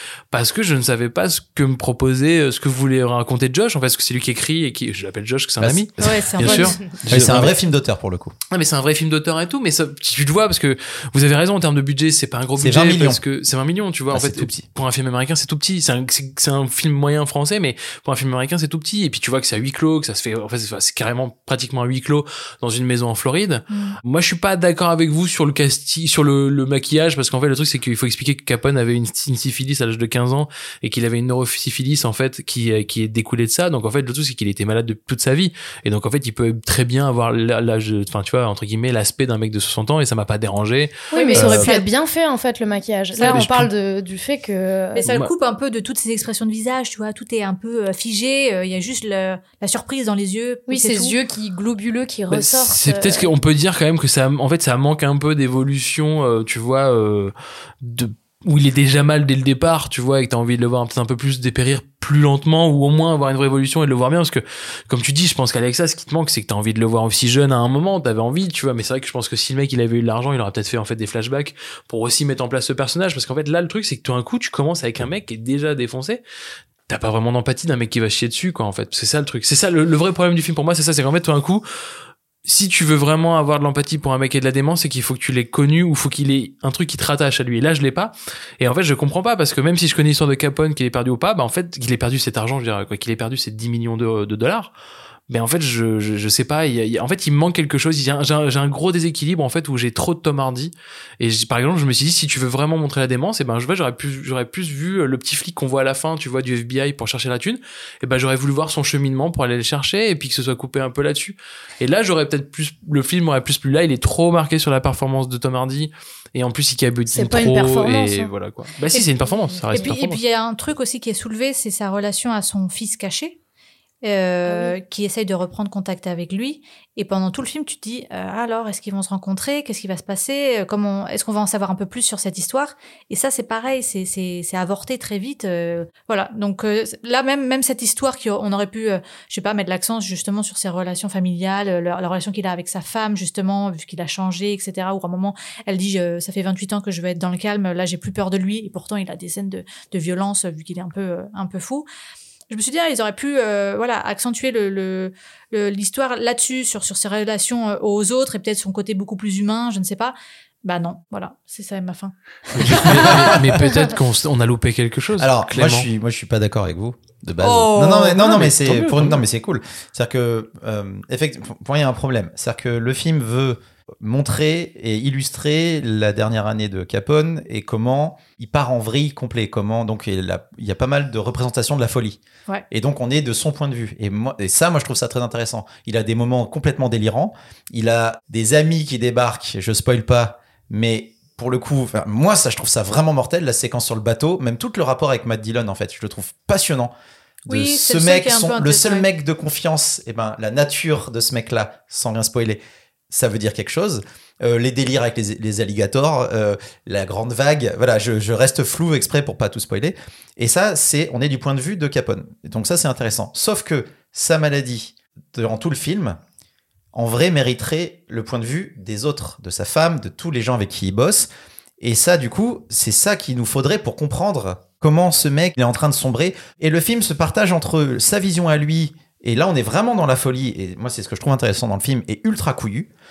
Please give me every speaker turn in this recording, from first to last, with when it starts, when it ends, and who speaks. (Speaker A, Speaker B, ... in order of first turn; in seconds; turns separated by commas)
Speaker A: 0.3-7.5, Speaker B: 5.6-8.3, Speaker C: 6.0-6.8, Speaker A: 8.5-41.5, Speaker B: 12.6-13.2, Speaker B: 14.1-14.7, Speaker C: 23.7-24.0, Speaker C: 41.1-41.8, Speaker D: 41.1-45.0, Speaker B: 41.3-41.7, Speaker C: 43.1-43.4, Speaker A: 43.3-43.7, Speaker C: 44.9-51.2, Speaker A: 45.1-45.3, Speaker D: 50.7-53.3, Speaker A: 52.3-76.2, Speaker A: 76.9-81.6, Speaker A: 82.5-94.7, Speaker A: 95.3-120.2, Speaker D: 117.1-118.3, Speaker C: 119.7-123.4, Speaker C: 124.0-151.9, Speaker D: 124.5-124.8, Speaker C: 152.5-163.7, Speaker A: 162.6-165.9, Speaker B: 165.2-182.2, Speaker C: 167.4-168.4, Speaker A: 168.3-169.2, Speaker B: 182.7-196.9, Speaker C: 197.5-199.1, Speaker B: 197.5-216.2, Speaker B: 216.9-232.9